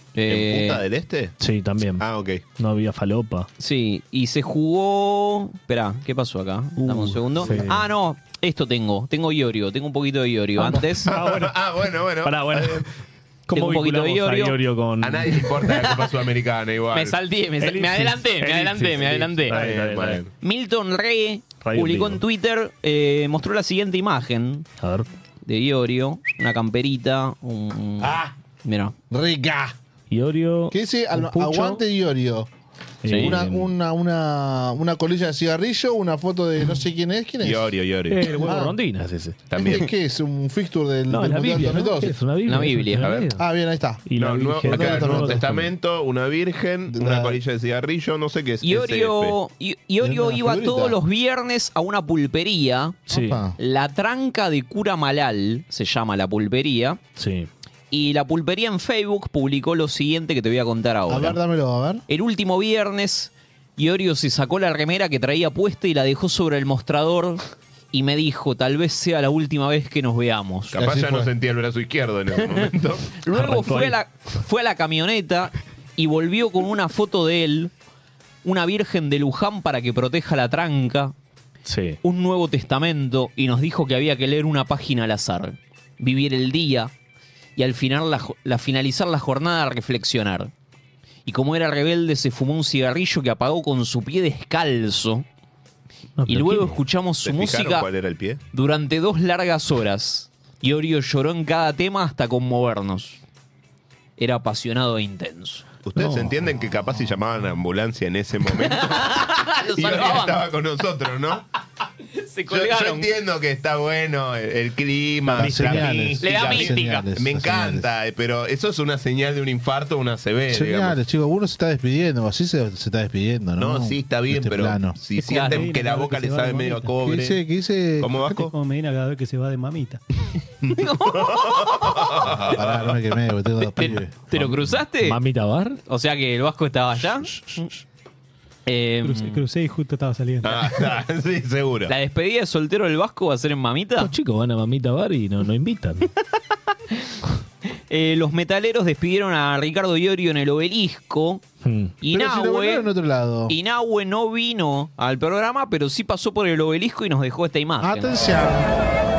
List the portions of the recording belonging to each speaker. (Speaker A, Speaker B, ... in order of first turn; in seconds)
Speaker A: 0.1-0.8, 3.6-11.1, 13.5-14.6, 16.9-19.7, 20.4-24.7, 25.5-28.9, 33.1-33.4, 42.5-43.1, 48.6-53.0, 53.6-57.0, 57.9-61.4, 62.1-70.8, 73.2-77.7, 78.4-81.1, 82.0-86.9, 87.6-90.5, 91.3-95.3, 96.3-97.9, 98.5-103.2, 104.2-105.7, 108.6-110.4, 112.2-113.1, 116.2-117.1, 125.3-125.7, 130.8-132.5, 133.8-135.2, 135.9-137.7, 138.7-139.4, 141.9-144.1, 147.9-151.4, 152.0-152.9, 153.5-158.2
Speaker B: 0.3-1.4, 2.0-2.4, 11.0-12.9, 15.0-17.2, 19.5-20.3, 37.4-38.3, 39.5-39.9, 44.2-49.4, 70.7-73.1, 97.2-98.4, 105.8-111.4, 112.5-121.0, 123.6-127.4, 128.0-128.5, 130.6-133.0, 140.4-141.9
Speaker C: 1.4-2.0, 2.6-3.5, 6.8-7.9, 10.6-11.7, 12.2-12.9, 13.5-15.8, 17.6-20.2, 21.6-22.2, 24.8-25.1, 30.1-31.8, 33.0-33.7, 38.1-39.5, 41.1-43.5, 44.1-45.7, 53.1-53.4, 57.2-57.5, 73.3-74.0, 81.7-82.0, 96.2-96.8, 106.0-106.5, 115.4-116.0, 134.4-135.8, 144.0-146.1, 151.6-151.9
Speaker D: 29.1-29.8, 30.7-32.5, 33.1-37.7, 38.4-38.8, 39.5-42.2, 43.4-44.1, 44.6-45.6, 46.9-47.4, 50.0-51.0, 53.1-53.6, 61.1-62.0, 70.7-71.3, 115.2-117.9, 120.5-125.0, 127.0-128.5, 132.5-134.4, 152.1-153.6, 157.8-158.7
Speaker E: 125.3-126.9, 128.3-130.0, 139.0-140.7